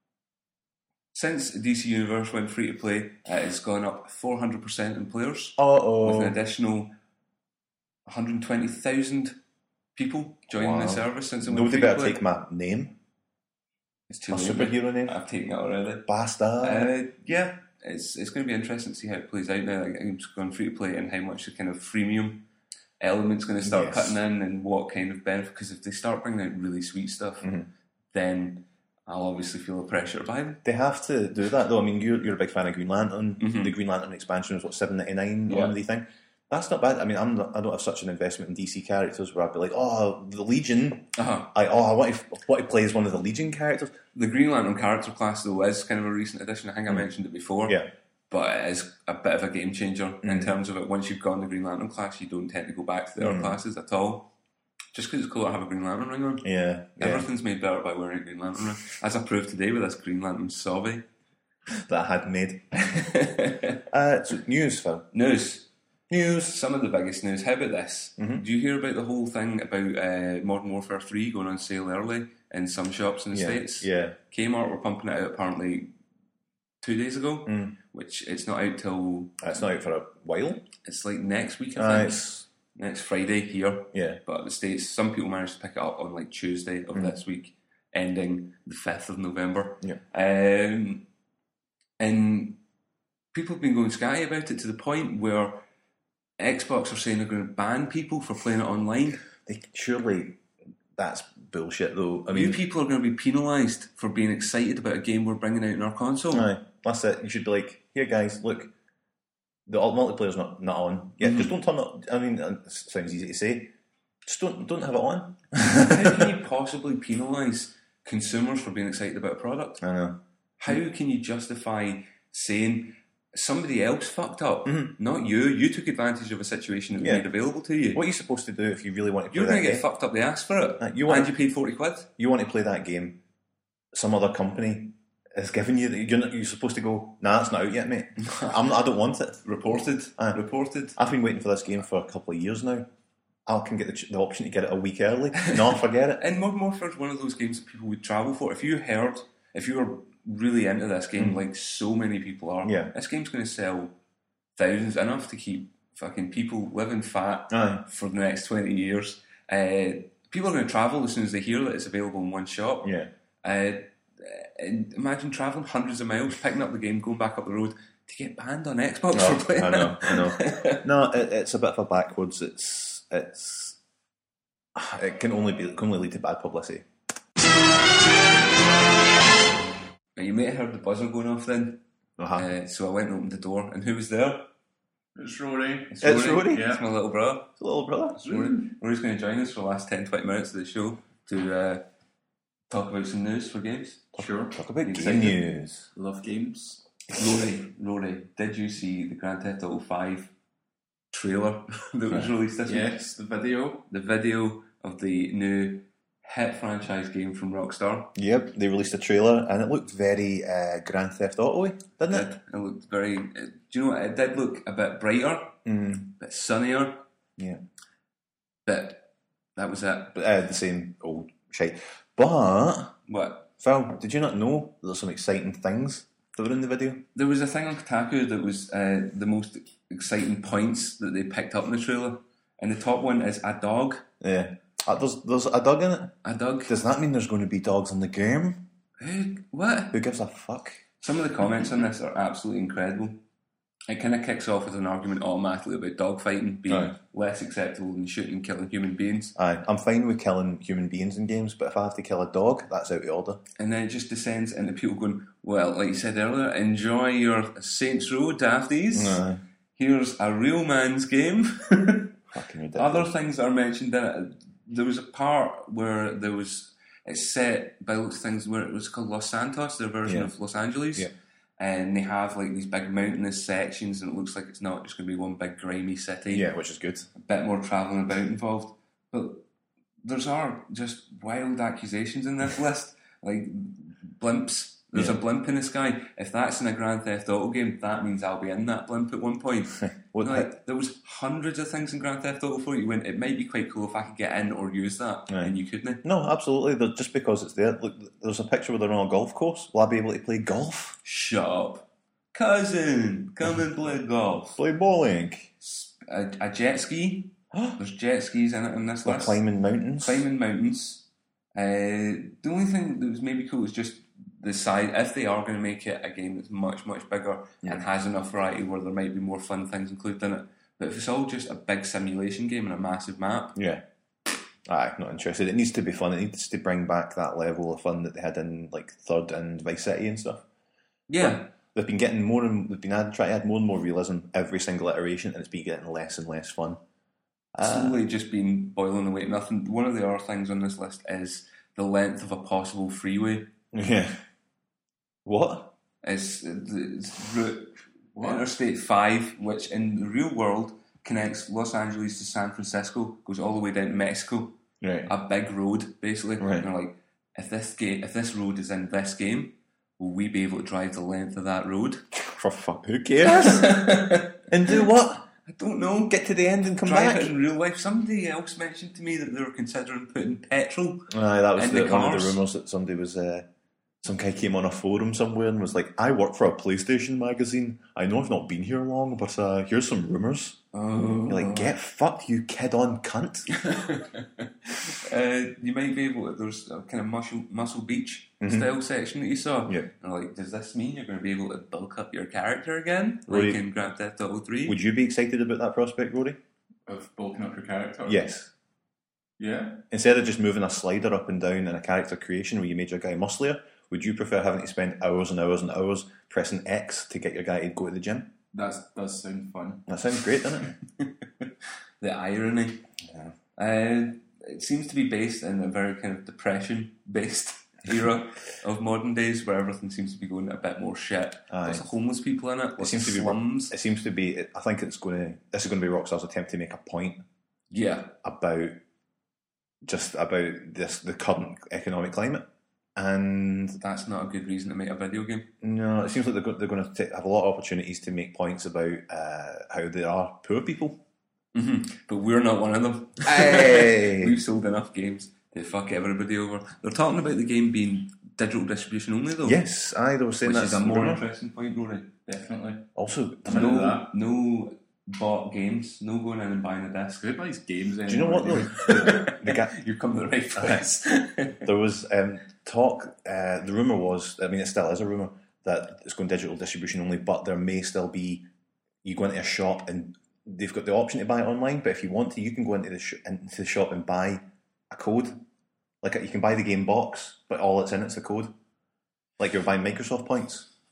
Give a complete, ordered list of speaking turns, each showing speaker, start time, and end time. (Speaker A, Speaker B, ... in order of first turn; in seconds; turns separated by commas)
Speaker A: 1.1-6.9, Speaker B: 5.6-6.4, Speaker A: 8.1-9.4, Speaker A: 9.9-12.2, Speaker B: 10.5-12.9, Speaker A: 14.1-16.1, Speaker B: 14.3-15.2, Speaker B: 16.1-16.9, Speaker A: 16.6-22.4, Speaker A: 23.0-27.5, Speaker B: 23.6-24.2, Speaker B: 27.4-27.7, Speaker A: 28.1-30.6, Speaker B: 30.6-44.0, Speaker A: 33.4-33.7, Speaker A: 35.5-35.8, Speaker A: 41.1-41.5, Speaker A: 44.1-54.3, Speaker B: 50.2-50.5, Speaker B: 53.2-53.6, Speaker A: 54.9-56.5, Speaker B: 56.4-57.3, Speaker A: 57.0-61.0, Speaker B: 61.8-62.8, Speaker A: 62.8-63.8, Speaker B: 63.9-65.1, Speaker A: 65.1-65.7, Speaker B: 66.1-66.5, Speaker A: 66.4-75.9, Speaker B: 68.2-68.4, Speaker B: 73.3-74.2, Speaker A: 76.8-79.4, Speaker B: 77.5-77.8, Speaker B: 79.4-80.7, Speaker A: 80.8-91.0, Speaker B: 81.8-82.5, Speaker B: 83.9-84.2, Speaker A: 92.0-92.6, Speaker A: 93.3-95.6, Speaker A: 96.4-99.2, Speaker B: 99.5-100.4, Speaker B: 101.0-102.6, Speaker A: 102.3-106.5, Speaker B: 106.3-108.7, Speaker B: 109.7-113.7, Speaker A: 111.2-111.5, Speaker B: 114.2-116.3, Speaker A: 115.7-119.8, Speaker B: 119.8-120.2, Speaker A: 120.6-128.0, Speaker B: 124.6-124.9, Speaker B: 127.0-127.3, Speaker B: 127.9-129.8, Speaker A: 129.3-132.1, Speaker B: 130.8-131.3, Speaker B: 132.2-133.2, Speaker B: 133.9-139.4, Speaker A: 138.2-138.6, Speaker A: 139.4-141.0, Speaker B: 140.9-142.9, Speaker B: 143.4-146.2, Speaker A: 146.2-153.9, Speaker B: 152.6-152.9, Speaker A: 154.6-170.8, Speaker B: 157.5-157.8, Speaker B: 162.8-163.1, Speaker B: 169.1-173.8, Speaker B: 174.7-176.8, Speaker A: 180.2-181.8, Speaker B: 182.2-182.5, Speaker A: 182.3-184.5, Speaker C: 185.2-186.8, Speaker A: 185.9-187.5, Speaker B: 186.0-186.7, Speaker B: 187.6-188.2, Speaker A: 188.1-191.8, Speaker C: 188.2-188.7, Speaker A: 192.7-194.1, Speaker B: 194.1-195.9, Speaker C: 194.2-194.6, Speaker A: 194.8-195.4, Speaker C: 195.9-196.8, Speaker A: 197.1-200.3, Speaker A: 201.1-202.9, Speaker C: 202.6-203.9, Speaker A: 203.9-208.1, Speaker B: 208.1-212.3, Speaker A: 212.1-215.6, Speaker B: 215.6-216.1, Speaker A: 216.2-217.0, Speaker A: 218.7-220.2, Speaker B: 220.1-222.9, Speaker A: 223.1-223.5, Speaker B: 223.6-227.0, Speaker A: 227.1-234.1, Speaker B: 234.2-238.6, Speaker A: 236.2-236.8, Speaker A: 239.0-240.0, Speaker B: 239.9-240.8, Speaker A: 241.0-243.2, Speaker A: 243.9-249.3, Speaker B: 246.7-246.9, Speaker B: 249.3-253.4, Speaker A: 253.6-259.2, Speaker B: 258.9-259.4, Speaker A: 259.7-262.2, Speaker B: 262.3-263.1, Speaker A: 262.7-276.5, Speaker B: 270.0-270.3, Speaker B: 276.3-277.1, Speaker A: 277.1-279.4, Speaker A: 280.0-296.0, Speaker B: 289.8-290.5, Speaker B: 295.3-301.0, Speaker A: 301.0-304.6, Speaker B: 304.6-305.5, Speaker A: 305.6-309.4, Speaker B: 307.5-307.8, Speaker B: 309.0-310.2, Speaker A: 310.0-323.6, Speaker B: 323.5-323.8, Speaker B: 324.6-330.4, Speaker A: 331.1-331.5, Speaker B: 331.2-336.8, Speaker B: 337.5-338.0, Speaker A: 337.6-343.5, Speaker B: 343.7-344.2, Speaker B: 345.2-345.7, Speaker A: 346.0-362.1, Speaker C: 348.1-348.5, Speaker B: 354.8-355.1, Speaker B: 356.4-356.7, Speaker B: 362.1-365.3, Speaker A: 363.2-364.8, Speaker A: 365.4-366.2, Speaker B: 366.1-367.4, Speaker A: 366.8-372.4, Speaker B: 371.1-373.5, Speaker B: 374.0-380.6, Speaker A: 380.7-381.7, Speaker B: 381.2-383.5, Speaker A: 383.5-394.8, Speaker B: 388.4-388.7, Speaker B: 393.3-393.6, Speaker B: 394.6-396.4, Speaker C: 396.9-398.2, Speaker B: 398.0-398.5, Speaker C: 399.4-399.8, Speaker B: 399.9-408.3, Speaker C: 408.5-409.9, Speaker B: 409.9-410.7, Speaker A: 411.0-411.5, Speaker A: 412.0-412.9, Speaker B: 413.1-413.3, Speaker A: 413.6-423.7, Speaker B: 421.5-421.9, Speaker B: 422.8-427.2, Speaker A: 427.7-428.1, Speaker B: 428.2-428.8, Speaker B: 429.8-433.8, Speaker A: 433.8-435.5, Speaker B: 435.6-441.0, Speaker A: 441.5-449.6, Speaker B: 443.2-444.4, Speaker B: 449.4-451.2, Speaker A: 450.4-452.1, Speaker C: 452.2-452.9, Speaker B: 452.9-453.9, Speaker C: 453.4-454.1, Speaker A: 453.5-457.2, Speaker C: 457.1-459.0, Speaker B: 458.1-459.8, Speaker A: 458.8-461.6, Speaker B: 460.6-460.9, Speaker B: 461.6-468.4, Speaker B: 469.0-475.4, Speaker B: 476.0-478.5, Speaker B: 479.4-480.7